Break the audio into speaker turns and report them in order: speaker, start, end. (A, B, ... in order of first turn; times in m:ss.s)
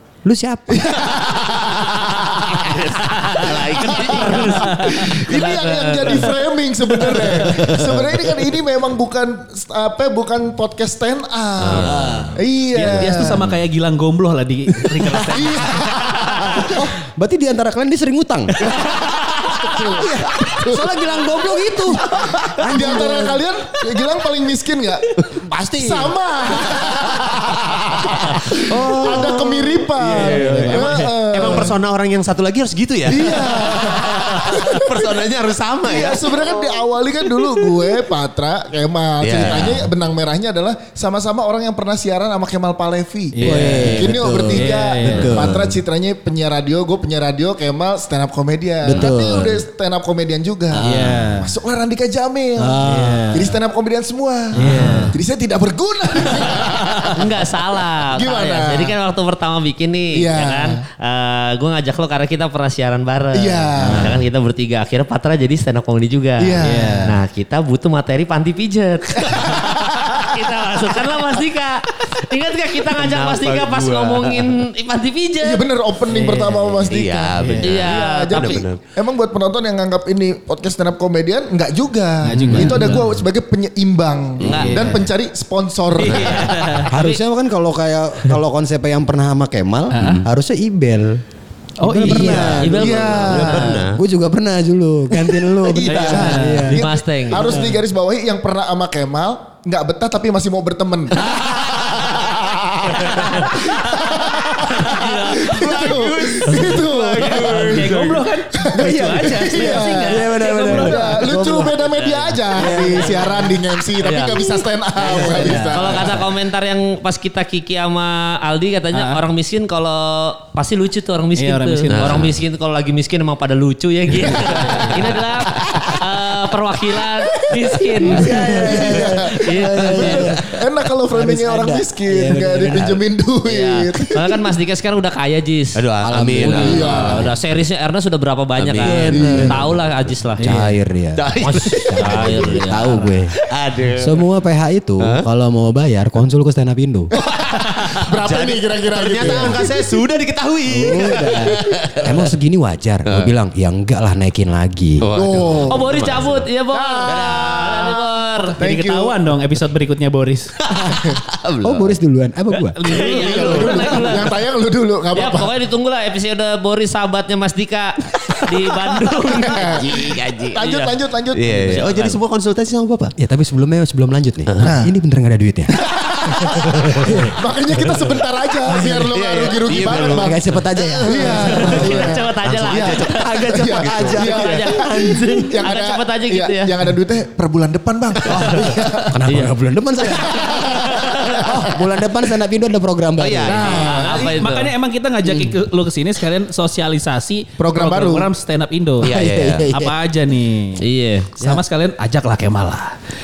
0:00.2-0:01.0 A
0:00.7-0:02.8 B
0:02.6-0:04.7 C
0:03.0-0:06.3 D
0:03.4-0:13.5 B
0:07.6-0:08.0 C
0:11.6-0:12.3 C
0:11.7-0:12.4 A
0:12.7-0:16.5 E
0:15.3-0:16.8 B
0:16.5-0:18.7 A
0:18.6-0:21.0 B
0:19.8-0:23.4 A
0:21.9-0:25.2 B
0:25.3-0:26.2 A
0:25.7-0:31.8 B
0:28.3-0:29.9 A
0:30.0-0:36.5 C
0:30.0-0:31.1 E
0:33.1-0:35.2 B
0:35.8-0:50.8 B
0:39.2-0:39.9 C
0:43.3-0:45.6 E
0:43.4-0:45.7 A
0:48.8-0:49.6 A
0:50.7-0:51.4 A
0:50.8-0:51.5 E
0:51.4-0:57.6 B
0:52.6-0:53.6 A
0:52.8-0:53.6 E
0:54.5-0:55.1 A
0:54.6-0:55.2 E
0:57.1-1:15.6 D
0:58.1-0:59.0 B
1:00.1-1:00.8 B
1:03.3-1:04.2 B
1:03.8-1:04.2 A
1:06.4-1:07.1 B
1:06.6-1:07.1 E
1:09.2-1:10.8 B
1:12.9-1:14.6 C
1:15.4-1:26.9 B
1:16.1-1:16.8 E
1:16.9-1:18.8 C
1:17.4-1:17.7 E
1:17.6-1:18.6 D
1:22.2-1:23.1 E
1:22.3-1:23.0 A
1:24.4-1:24.8 C
1:24.4-1:25.1 E
1:26.0-1:26.9 E
1:26.0-1:26.5 C
1:26.9-1:31.2 A
1:26.9-1:27.2 D
1:29.9-1:30.2 E
1:31.8-1:32.6 E
1:31.8-1:37.8 A
1:32.1-1:34.0 C
1:32.6-1:33.5 D
1:32.6-1:33.8 B
1:35.2-1:56.2 B
1:35.8-1:36.8 E
1:36.7-1:37.6 D
1:43.2-1:43.6 D
1:44.7-1:48.2 C
1:44.8-1:45.6 D
1:46.4-1:47.5 D
1:47.4-1:51.1 E
1:48.8-1:51.9 A
1:49.6-1:51.2 D
1:51.9-1:54.5 D
1:52.5-1:53.5 A
1:55.0-1:56.2 A
1:55.5-2:10.3 D
1:58.9-1:59.2 E
2:01.4-2:02.2 E
2:01.9-2:02.4 C
2:07.5-2:14.5 B
2:08.0-2:10.4 A
2:11.1-2:13.0 A
2:13.5-2:15.8 D
2:15.8-2:17.2 C
2:16.0-2:17.3 A
2:16.4-2:17.3 B
2:16.6-2:20.4 D
2:18.6-2:19.4 C
2:18.8-2:19.8 A
2:19.1-2:19.6 B
2:20.4-2:20.7 E
2:20.4-2:21.2 A
2:21.2-2:22.7 C
2:21.4-2:23.2 D
2:21.8-2:23.4 A
2:23.4-2:24.2 C
2:24.0-2:27.1 A
2:27.1-2:30.0 B
2:27.5-2:32.3 C
2:29.2-2:29.6 A
2:30.7-2:35.1 A
2:30.9-2:31.5 B
2:35.0-2:36.5 C
2:35.1-2:36.0 B
2:35.7-2:38.6 D
2:36.7-2:37.6 B
2:37.0-2:38.0 C
2:38.5-2:40.5 E
2:38.6-2:39.2 B
2:40.6-2:42.0 C
2:40.8-2:41.2 B
2:41.6-2:42.8 A
2:42.8-2:44.2 E
2:42.8-2:44.4 D
2:42.9-2:45.5 B
2:45.1-2:50.9 D
2:49.4-2:51.8 B
2:49.5-2:50.6 C
2:51.3-2:53.1 C
2:51.6-2:52.2 D
2:53.2-2:55.8 A
2:54.5-2:54.7 C
2:54.6-2:54.9 B
2:55.7-3:00.4 B
2:56.3-2:57.3 A
2:58.7-2:59.0 A
2:59.0-3:00.4 C
3:00.1-3:02.1 A
3:00.8-3:06.7 D
3:01.0-3:09.2 B
3:01.7-3:04.3 C
3:03.1-3:05.7 A
3:08.3-3:08.6 C
3:08.3-3:13.9 A
3:08.5-3:09.5 D
3:10.1-3:11.8 B
3:10.8-3:11.4 D
3:13.2-3:14.2 C
3:13.4-3:14.3 B
3:13.7-3:14.7 D
3:14.1-3:20.8 E
3:17.6-3:18.3 B
3:19.0-3:19.7 C
3:19.0-3:20.0 A
3:20.8-3:21.3 D
3:21.4-3:22.9 E